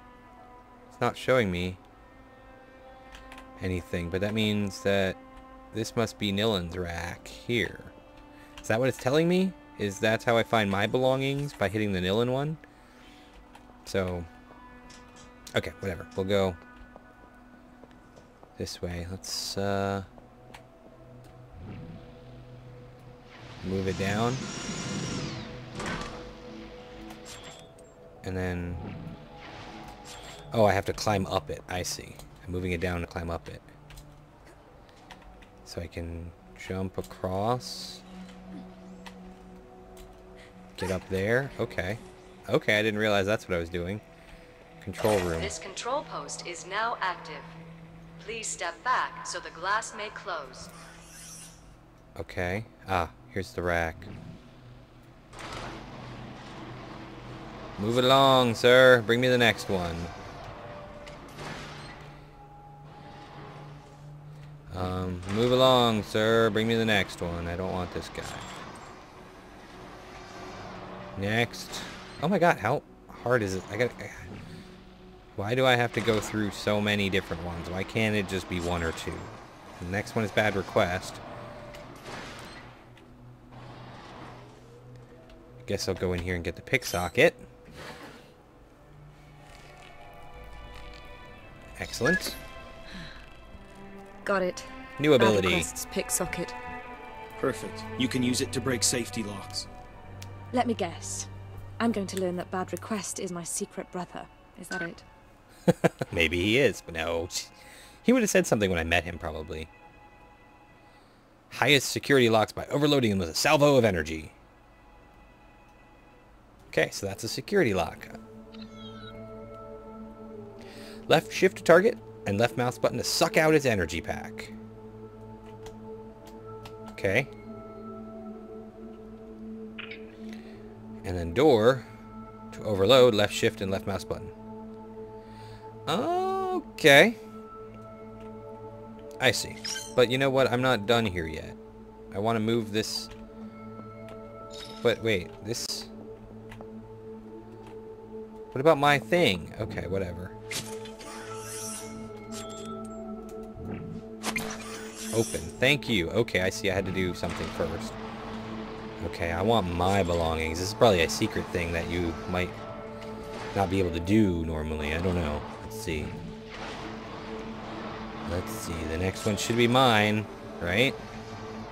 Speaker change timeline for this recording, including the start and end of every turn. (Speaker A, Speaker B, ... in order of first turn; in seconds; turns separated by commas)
Speaker A: 0.9-1.8, Speaker A: 3.6-5.2, Speaker A: 5.7-7.9, Speaker A: 8.6-12.6, Speaker A: 13.8-14.3, Speaker A: 15.5-16.6, Speaker A: 18.6-20.1, Speaker A: 23.6-24.4, Speaker A: 28.2-28.9, Speaker A: 30.5-33.7, Speaker A: 35.6-38.0, Speaker A: 40.8-44.0, Speaker A: 44.8-45.6, Speaker B: 45.4-47.5, Speaker B: 48.2-50.7, Speaker A: 52.1-54.1, Speaker A: 57.8-60.1, Speaker A: 64.7-68.5, Speaker A: 71.2-74.3, Speaker A: 75.3-81.2, Speaker A: 85.6-87.5, Speaker A: 91.8-92.4, Speaker C: 94.2-96.5, Speaker A: 95.0-95.7, Speaker D: 97.4-99.7, Speaker C: 100.5-105.0, Speaker A: 105.7-109.7, Speaker A: 111.5-114.3, Speaker A: 116.7-118.2, Speaker A: 121.1-124.5, Speaker A: 126.9-127.3, Speaker A: 131.0-131.9, Speaker A: 132.5-134.3, Speaker A: 135.8-137.2, Speaker A: 139.2-141.6, Speaker A: 142.1-143.1, Speaker A: 144.8-145.9, Speaker A: 148.5-150.3, Speaker A: 155.1-158.0, Speaker A: 159.0-162.6, Speaker A: 163.5-166.1, Speaker A: 168.2-171.0